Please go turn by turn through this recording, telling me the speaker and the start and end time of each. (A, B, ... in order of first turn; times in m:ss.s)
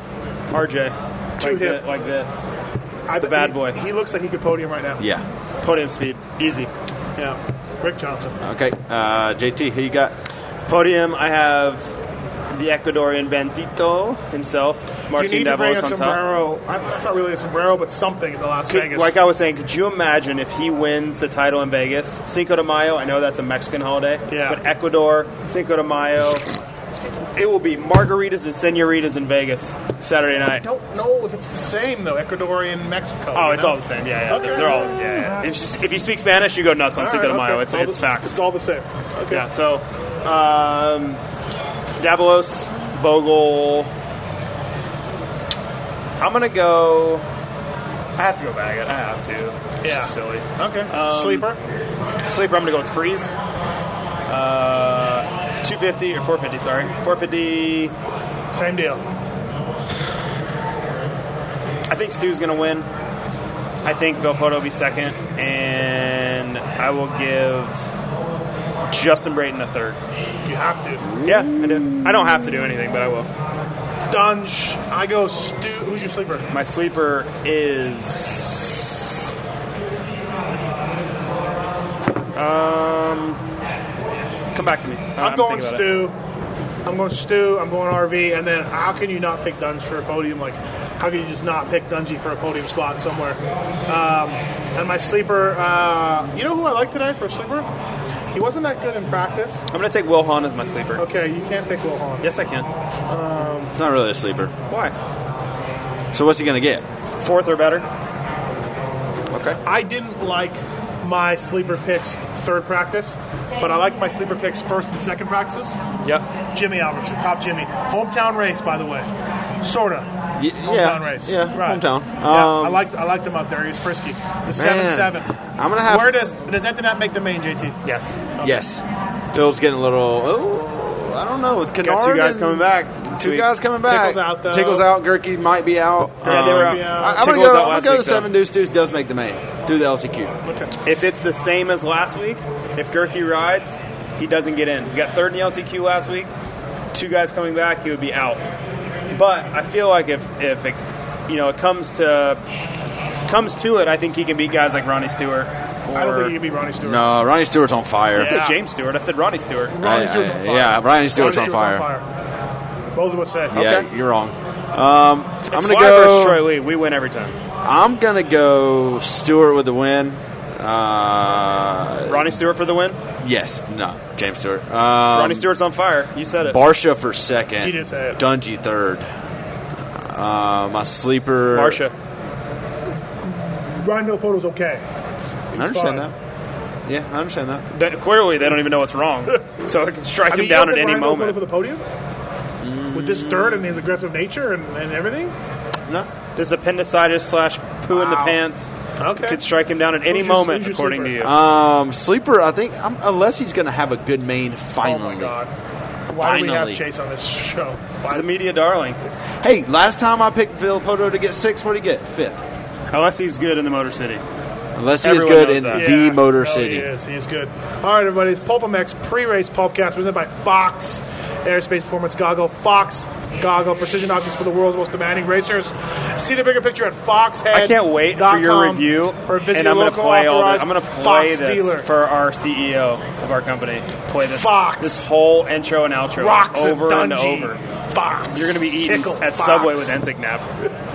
0:00.5-0:02.4 A
0:01.4-0:01.8 B
0:03.1-0:05.0 B
0:03.2-0:03.8 A
0:05.0-0:05.2 C
0:05.6-0:06.7 A
0:07.2-0:08.4 B
0:08.4-0:10.1 C
0:10.7-0:11.9 A
0:12.5-0:16.2 A
0:15.1-0:19.1 B
0:18.7-0:26.4 A
0:24.3-0:24.6 B
0:27.4-0:30.6 A
0:30.6-0:35.4 B
0:33.3-0:38.3 A
0:37.0-0:39.4 B
0:39.3-0:41.2 A
0:42.0-0:43.9 A
0:46.2-0:47.2 A
0:48.2-0:51.5 A
0:49.8-0:51.6 B
0:52.3-0:53.3 A
0:54.3-0:57.9 A
0:58.5-0:59.0 B
1:01.9-1:02.9 A
1:03.8-1:07.9 A
1:08.9-1:10.0 A
1:10.4-1:11.0 B
1:11.2-1:13.3 A
1:14.1-1:16.5 B
1:16.5-1:19.3 A
1:22.3-1:23.4 A
1:24.5-1:26.1 A
1:25.2-1:26.1 B
1:26.8-1:37.7 B
1:38.3-1:39.6 B
1:39.7-1:41.0 A
1:41.0-1:42.3 B
1:42.2-1:42.7 A
1:43.1-1:43.7 B
1:43.7-1:44.5 C
1:44.7-1:44.9 A
1:46.1-1:46.8 C
1:47.2-1:47.8 A
1:49.3-1:49.6 C
1:49.6-1:55.8 B
1:56.5-1:59.1 B
1:59.6-2:00.1 B
2:00.4-2:02.8 C
2:00.6-2:05.3 B
2:04.5-2:06.2 C
2:05.9-2:07.8 B
2:07.8-2:08.2 A
2:08.4-2:08.6 B
2:08.4-2:20.4 C
2:11.8-2:13.5 A
2:13.8-2:14.9 B
2:16.2-2:18.3 A
2:16.2-2:17.3 B
2:20.4-2:20.7 B
2:20.8-2:26.3 A
2:26.9-2:28.4 A
2:29.1-2:32.4 A
2:33.3-2:36.3 A
2:35.9-2:37.0 B
2:36.8-2:38.4 C
2:38.2-2:38.6 B
2:38.2-2:39.8 A
2:39.7-2:42.1 B
2:39.8-2:41.8 C
2:42.9-2:43.6 B
2:43.5-2:46.4 C
2:43.5-2:43.8 A
2:45.5-2:47.4 A
2:47.6-2:52.3 C
2:52.0-2:53.0 A
2:53.2-2:55.5 C
2:55.1-2:56.6 A
2:56.4-2:59.1 C
2:57.6-2:58.2 B
2:59.9-3:01.8 C
3:01.5-3:01.9 A
3:03.2-3:04.8 B
3:05.5-3:06.1 B
3:05.5-3:06.1 C
3:06.8-3:07.6 C
3:07.7-3:11.4 A
3:10.3-3:11.8 B
3:12.6-3:13.7 C
3:12.9-3:15.3 B
3:16.4-3:21.3 A
3:17.9-3:18.4 B
3:19.0-3:19.4 B
3:20.0-3:21.3 B
3:21.2-3:25.3 C
3:24.8-3:25.5 B
3:26.1-3:28.2 B
3:26.2-3:26.8 C
3:28.1-3:29.0 A
3:29.4-3:32.4 C
3:32.9-3:34.2 A
3:34.8-3:36.9 C
3:35.0-3:35.9 A
3:35.7-3:51.9 B
3:47.5-3:57.6 A
3:54.2-3:55.1 B
3:56.2-3:59.9 B
3:58.3-4:00.4 A